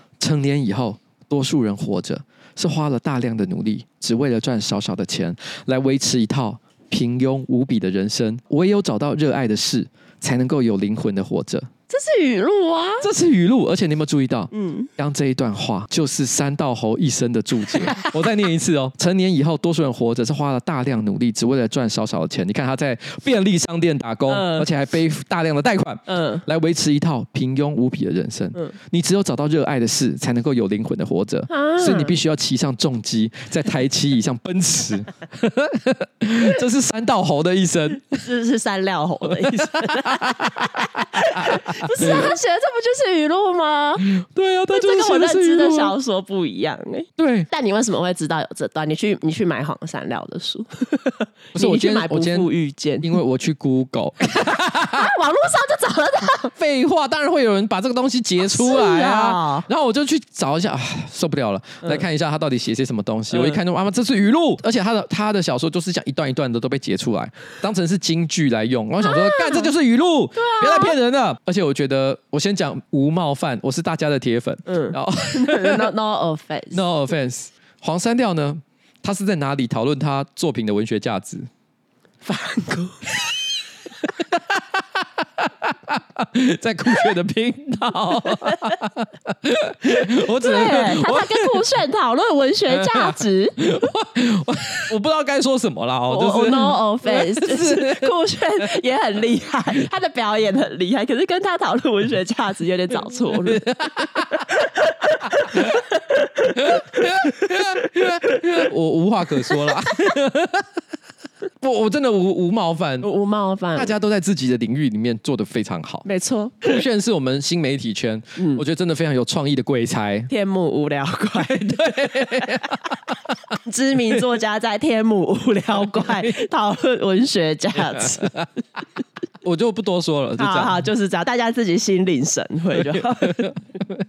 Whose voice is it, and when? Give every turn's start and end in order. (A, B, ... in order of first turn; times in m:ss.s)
0:00.2-0:11.7 A
0:11.9-0:13.0 B
0:13.0-0:38.2 A
0:14.5-0:14.9 B
0:17.8-0:18.1 B
0:24.3-0:24.7 B
0:26.1-0:26.4 B
0:31.5-0:32.1 B
0:38.1-0:44.1 B
0:39.3-0:42.3 A
0:44.0-0:45.9 A
0:44.7-0:53.1 B
0:47.2-0:47.5 A
0:51.6-0:52.5 A
0:53.0-0:55.1 A
0:54.9-0:56.5 B
0:56.6-1:15.9 A
0:58.4-0:59.7 B
1:03.3-1:03.6 B
1:09.0-1:09.7 B
1:10.4-1:11.0 B
1:14.7-1:16.8 B
1:16.7-1:21.5 A
1:22.2-1:23.3 B
1:24.3-1:31.6 A
1:30.1-1:33.7 B
1:32.7-1:38.1 A
1:36.1-1:43.6 B
1:43.4-1:44.4 A
1:44.3-1:46.8 B
1:45.3-1:45.8 A
1:46.5-1:50.7 A
1:51.6-1:53.1 A
1:53.0-1:53.9 B
1:53.8-1:56.1 A
1:56.1-1:56.8 B
1:56.6-2:00.3 A
1:58.4-1:58.6 B
2:00.3-2:02.7 B
2:01.4-2:03.0 A
2:03.6-2:08.3 B
2:06.0-2:06.3 A
2:08.0-2:08.5 A
2:09.4-2:10.8 A
2:10.4-2:13.5 B
2:12.9-2:13.6 A